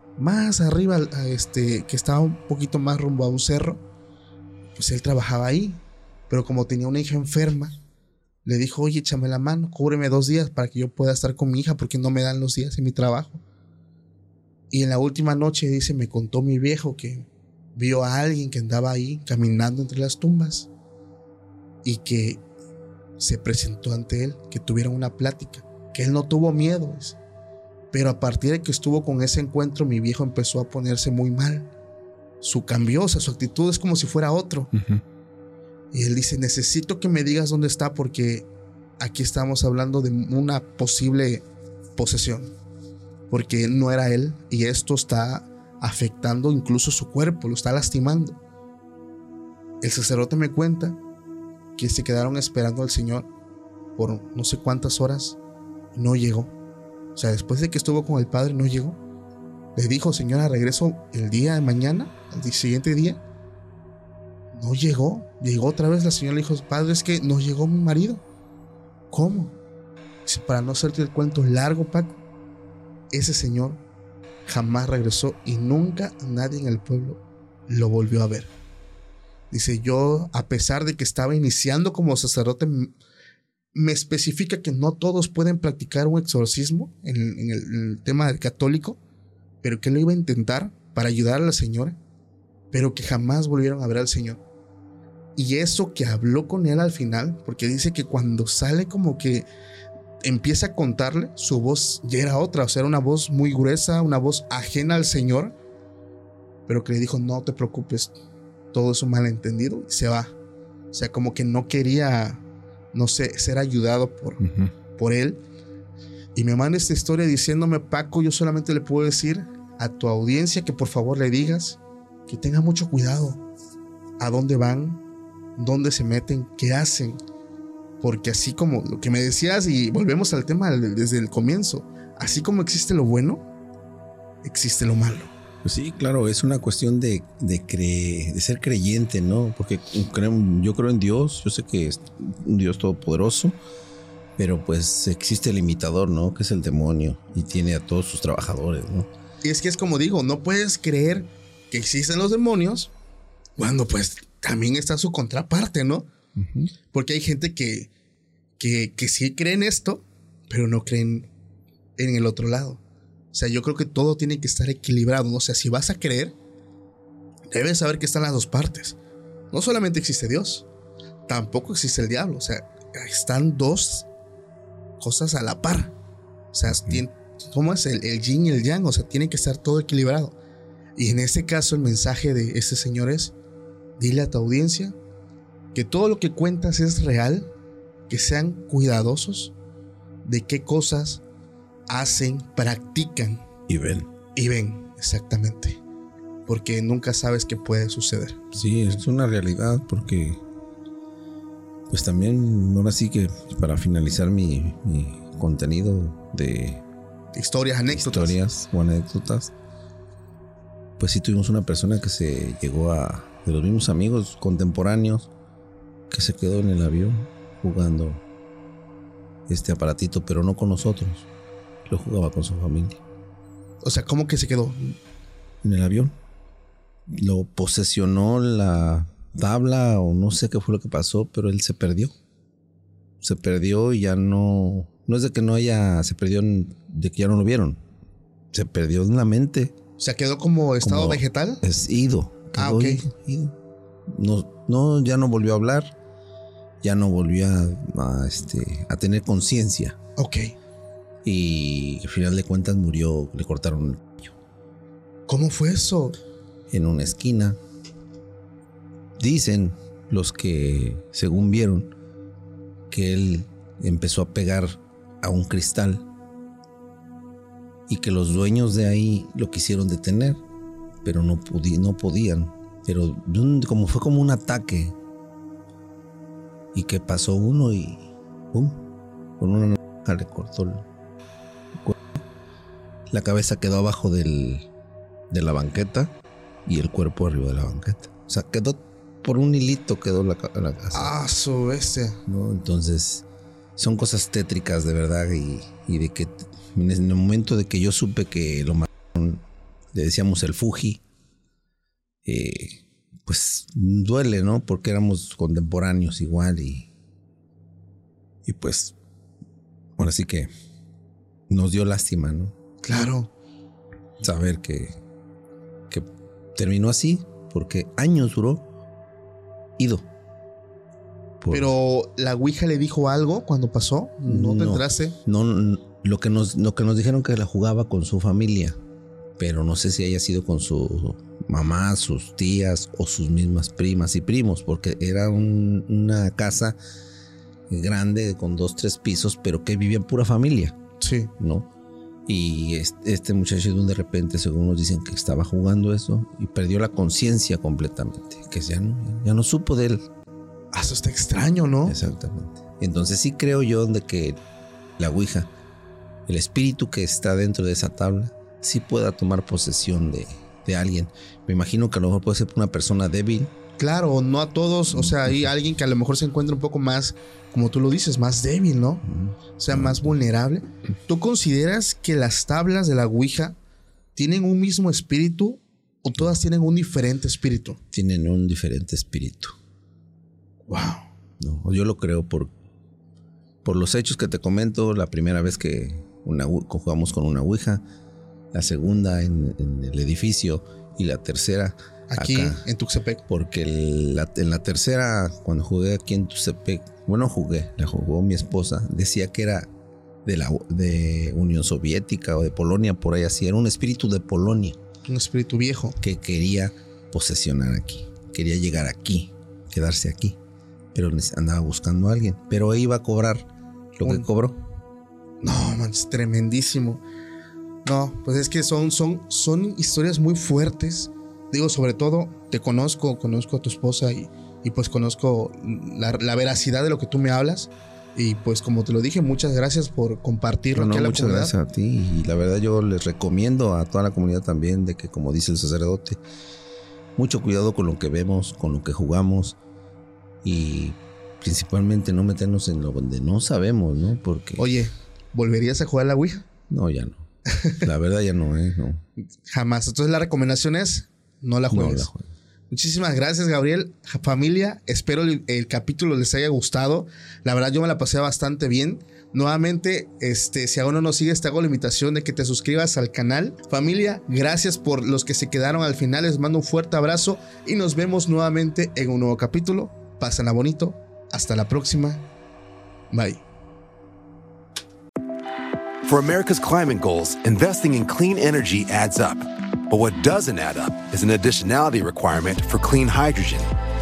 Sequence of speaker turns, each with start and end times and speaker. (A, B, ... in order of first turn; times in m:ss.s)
0:00.2-0:03.8 A
0:04.8-0:07.8 A
0:08.4-0:13.4 A
0:14.7-0:20.7 A
0:21.8-0:22.4 A
0:23.2-0:27.2 A
0:27.9-0:31.7 A
0:32.4-0:34.7 A
0:35.9-0:38.5 A
0:39.0-0:41.4 A
0:42.0-0:42.5 A
0:43.3-0:48.4 A
0:49.8-0:51.0 A
0:51.8-0:53.3 A
0:54.0-0:55.4 A
0:55.9-0:56.5 A
0:57.2-0:59.0 A
0:59.8-1:03.2 A
1:04.5-1:08.2 A
1:09.1-1:09.6 A
1:10.3-1:12.1 A
1:13.1-1:13.8 A
1:14.5-1:18.5 A
1:19.5-1:22.9 A
1:23.7-1:29.0 A
1:29.6-1:32.0 A
1:32.7-1:34.4 A
1:35.4-1:39.5 A
1:40.2-1:45.6 A
1:46.7-1:48.2 A
1:48.7-1:50.4 A
1:50.9-1:54.4 A
1:54.4-1:54.7 B
1:55.0-1:55.4 A
1:56.4-2:03.4 A
2:04.2-2:05.0 A
2:05.6-2:07.2 A
2:08.0-2:13.4 A
2:14.4-2:15.3 A
2:15.6-2:23.6 B
2:24.4-2:29.1 B
2:29.4-2:32.9 A
2:33.6-2:36.1 A
2:36.4-2:36.7 B
2:36.9-2:37.9 A
2:38.6-2:41.3 A
2:42.0-2:42.8 A
2:43.3-2:46.4 A
2:47.5-2:49.0 A
2:49.5-2:50.7 A
2:51.3-2:54.1 A
2:55.0-2:56.0 A
2:56.5-3:00.4 A
3:01.0-3:03.3 A
3:04.0-3:05.0 A
3:05.7-3:07.5 A
3:08.1-3:09.5 A
3:10.2-3:11.2 A
3:11.9-3:13.4 A
3:13.7-3:14.1 B
3:14.4-3:15.8 A
3:16.5-3:18.5 A
3:18.5-3:20.4 B
3:21.9-3:26.8 B
3:27.3-3:28.4 A
3:27.9-3:29.5 B
3:31.0-3:35.3 B
3:36.1-3:38.2 B
3:39.5-3:41.3 B
3:41.9-3:43.0 B
3:43.8-3:45.0 A
3:45.6-3:46.2 B
3:47.1-3:52.2 B
3:53.2-3:57.8 B
3:58.5-3:59.7 B
4:00.0-4:01.6 A
4:00.8-4:03.6 B
4:02.6-4:03.0 A
4:04.1-4:05.9 B
4:06.8-4:10.0 B
4:10.2-4:10.6 A
4:11.2-4:14.3 B
4:15.3-4:16.2 A
4:16.7-4:17.6 B
4:19.2-4:21.9 B
4:22.9-4:26.1 B
4:27.9-4:30.4 B
4:31.0-4:35.0 B
4:36.7-4:38.8 B
4:39.4-4:40.9 B
4:43.1-4:44.7 B
4:45.3-4:46.1 B
4:46.6-4:51.1 B
4:50.9-4:52.2 A
4:52.3-4:53.2 B
4:53.8-5:01.0 B
5:02.2-5:06.9 B
5:08.4-5:09.0 B
5:10.0-5:10.5 B
5:11.5-5:12.5 B
5:12.8-5:13.3 A
5:14.2-5:15.0 B
5:15.9-5:18.7 B
5:19.8-5:20.1 B
5:21.4-5:21.8 B
5:21.5-5:25.2 A
5:24.3-5:28.8 B
5:29.4-5:36.8 B
5:37.7-5:40.8 B
5:41.0-5:41.3 A
5:41.4-5:41.7 B
5:42.3-5:50.1 B
5:50.7-5:52.0 A
5:51.8-5:54.4 B
5:55.0-5:55.5 B
5:56.3-6:03.5 B
6:03.8-6:09.1 A
6:04.9-6:05.5 B
6:09.1-6:10.2 B
6:09.6-6:13.6 A
6:14.2-6:17.8 A
6:17.9-6:19.6 B
6:20.7-6:21.1 A
6:21.4-6:22.5 B
6:23.6-6:27.8 B
6:28.5-6:32.6 B
6:32.1-6:33.2 A
6:33.3-6:39.7 B
6:40.2-6:44.8 B
6:45.1-6:46.0 A
6:46.0-6:50.4 B
6:50.9-6:54.6 B
6:55.4-6:57.0 A
6:57.8-7:11.5 A
7:10.7-7:16.2 B
7:17.2-7:19.6 B
7:20.4-7:24.7 B
7:24.6-7:26.5 A
7:26.7-7:27.2 B
7:27.5-7:27.9 A
7:27.8-7:29.0 B
7:29.5-7:32.1 A
7:31.7-7:32.3 B
7:32.7-7:52.3 A
7:53.1-7:53.4 A
7:56.0-8:03.7 C